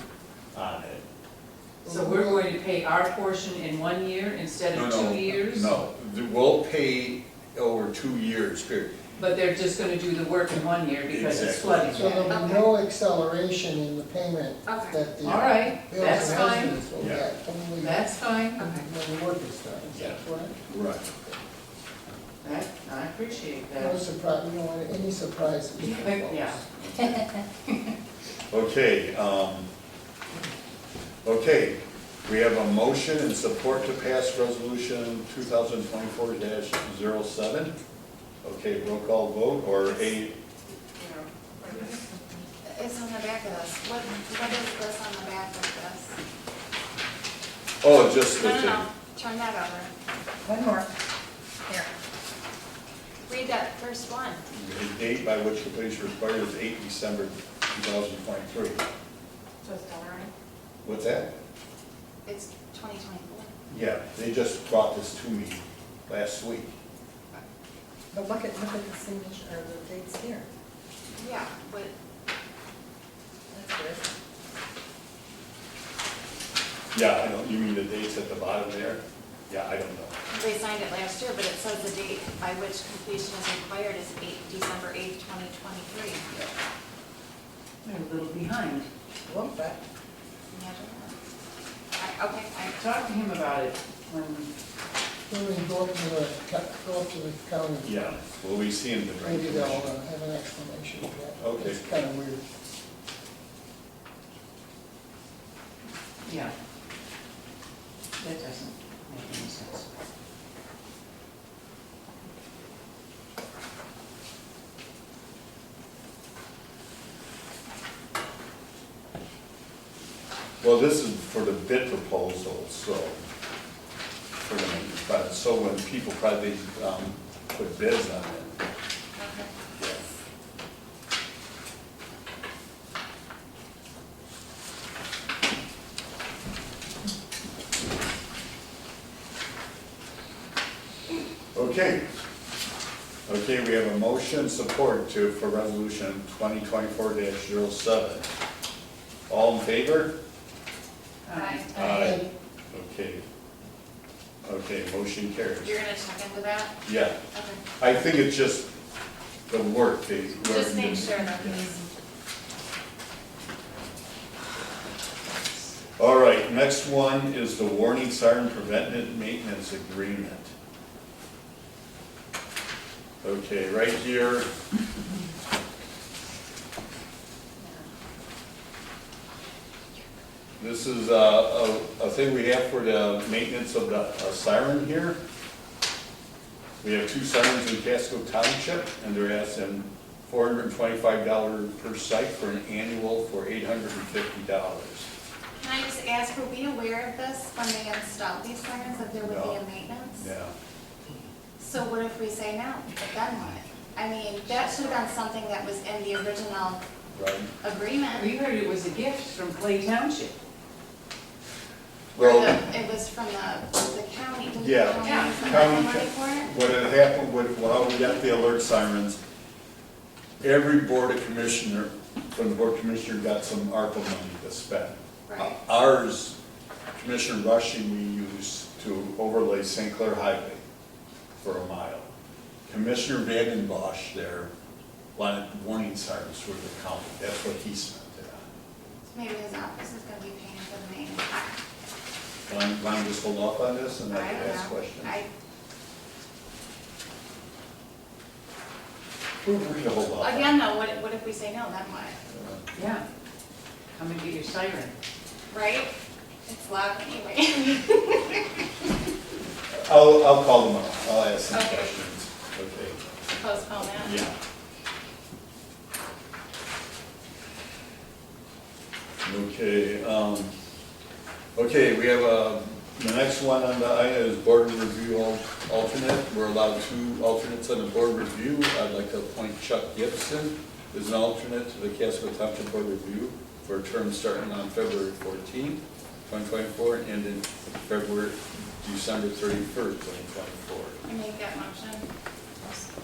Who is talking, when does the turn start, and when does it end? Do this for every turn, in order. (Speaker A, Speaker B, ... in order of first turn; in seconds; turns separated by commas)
Speaker A: 0.5-1.0, Speaker B: 1.8-2.4, Speaker C: 1.9-5.7, Speaker A: 4.7-8.9, Speaker C: 9.2-12.3, Speaker A: 11.1-12.1, Speaker B: 11.9-18.0, Speaker D: 12.3-12.7, Speaker D: 14.7-15.0, Speaker C: 15.2-16.8, Speaker A: 17.0-17.2, Speaker C: 17.8-18.7, Speaker D: 18.6-18.9, Speaker B: 18.6-20.7, Speaker A: 19.9-21.1, Speaker C: 22.4-24.1, Speaker B: 23.8-26.6, Speaker C: 25.8-26.6, Speaker A: 28.5-29.7, Speaker A: 31.2-37.7, Speaker A: 38.4-40.4, Speaker E: 41.0-42.0, Speaker D: 42.6-46.1, Speaker A: 47.8-48.8, Speaker D: 48.3-49.9, Speaker E: 50.4-50.9, Speaker D: 53.3-54.4, Speaker A: 54.5-58.8, Speaker E: 59.6-60.3, Speaker A: 60.8-61.3, Speaker D: 62.2-63.5, Speaker A: 63.7-66.7, Speaker E: 68.1-70.5, Speaker D: 71.2-71.9, Speaker E: 73.5-74.0, Speaker A: 76.9-80.1, Speaker D: 80.3-86.5, Speaker C: 87.8-88.9, Speaker E: 89.2-89.8, Speaker D: 90.5-91.1, Speaker D: 92.0-92.8, Speaker C: 92.7-94.5, Speaker B: 95.3-98.2, Speaker A: 97.8-99.9, Speaker B: 99.2-102.4, Speaker A: 101.4-101.8, Speaker C: 106.2-106.5, Speaker C: 108.2-109.8, Speaker A: 120.6-123.2, Speaker A: 124.4-128.6, Speaker D: 129.2-129.5, Speaker A: 129.8-130.0, Speaker A: 141.5-142.1, Speaker A: 143.2-148.3, Speaker A: 149.3-150.1, Speaker C: 151.2-151.7, Speaker D: 151.3-152.0, Speaker A: 151.7-153.2, Speaker B: 151.8-152.3, Speaker A: 154.4-155.8, Speaker D: 155.6-156.8, Speaker A: 156.8-157.2, Speaker D: 157.3-157.6, Speaker A: 157.8-158.7, Speaker A: 159.5-161.7, Speaker D: 160.4-161.8, Speaker A: 166.0-170.5, Speaker A: 173.2-174.5, Speaker A: 180.6-185.2, Speaker A: 186.8-195.1, Speaker D: 195.6-200.3, Speaker A: 199.2-199.6, Speaker A: 200.2-200.5, Speaker D: 201.6-206.8, Speaker A: 207.1-207.5, Speaker D: 207.6-208.3, Speaker C: 208.1-210.3, Speaker D: 212.1-216.5, Speaker A: 212.2-212.6, Speaker A: 214.6-219.2, Speaker C: 215.0-215.4, Speaker A: 220.4-226.4, Speaker D: 225.3-225.6, Speaker A: 226.9-230.6, Speaker A: 231.4-232.1, Speaker A: 232.7-234.5, Speaker A: 235.2-238.5, Speaker D: 239.1-241.6, Speaker A: 242.5-245.1, Speaker D: 244.1-245.3, Speaker A: 249.4-250.6, Speaker D: 250.2-252.2, Speaker A: 252.3-252.6, Speaker C: 252.7-253.0, Speaker C: 253.9-254.9, Speaker D: 255.5-255.9, Speaker D: 256.5-258.6, Speaker A: 259.7-263.0, Speaker D: 261.5-262.0, Speaker D: 263.4-264.2, Speaker A: 264.0-264.3, Speaker A: 269.2-270.5, Speaker A: 271.6-291.0, Speaker D: 291.0-292.1, Speaker D: 292.6-292.9